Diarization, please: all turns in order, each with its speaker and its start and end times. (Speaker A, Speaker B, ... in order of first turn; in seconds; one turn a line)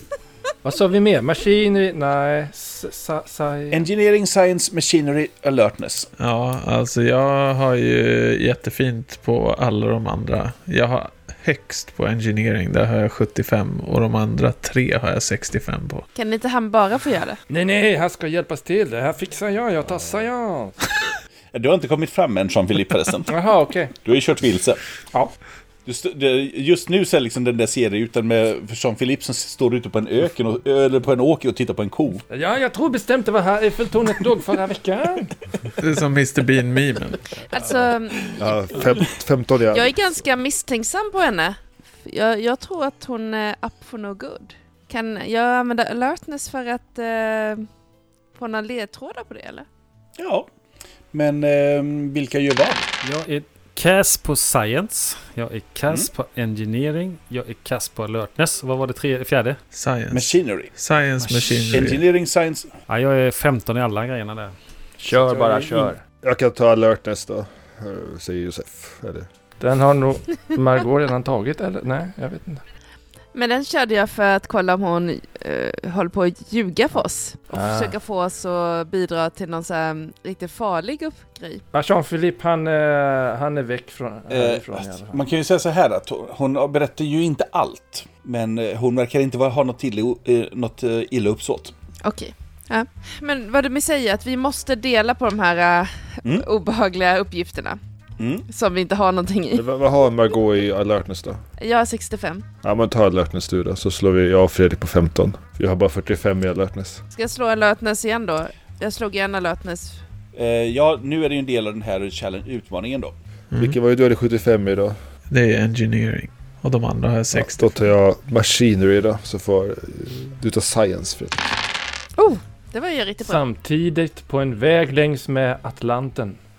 Speaker A: 0.6-3.9
Speaker B: 3.7-6.1
Speaker C: 6.2-16.0
Speaker D: 16.1-17.4
Speaker A: 17.5-20.8
Speaker B: 21.5-23.4
Speaker A: 23.3-23.9
Speaker B: 23.9-24.8
Speaker B: 25.9-32.2
Speaker A: 32.3-35.3
Speaker C: 35.8-37.3
Speaker D: 37.5-38.4
Speaker E: 38.4-40.0
Speaker D: 39.7-47.6
Speaker D: 48.4-49.6
Speaker B: 50.2-50.5
Speaker B: 51.1-52.9
Speaker F: 53.0-59.6
Speaker C: 59.7-62.0
Speaker B: 60.1-60.7
Speaker F: 61.2-61.5
Speaker B: 61.6-62.7
Speaker F: 62.9-64.5
Speaker A: 65.0-66.0
Speaker F: 65.3-65.8
Speaker E: 66.2-69.3
Speaker A: 69.6-72.6
Speaker D: 73.3-81.6
Speaker A: 77.5-77.9
Speaker A: 81.7-85.2
Speaker B: 84.3-91.7
Speaker D: 92.0-97.8
Speaker B: 98.2-98.5
Speaker D: 98.5-99.6
Speaker E: 99.5-101.4
Speaker D: 101.6-102.4
Speaker E: 102.6-107.0
Speaker D: 107.1-110.0
Speaker B: 110.3-113.1
Speaker E: 113.6-115.0
Speaker C: 115.3-117.8
Speaker E: 117.3-121.5
Speaker D: 122.2-123.4
Speaker A: 123.2-126.4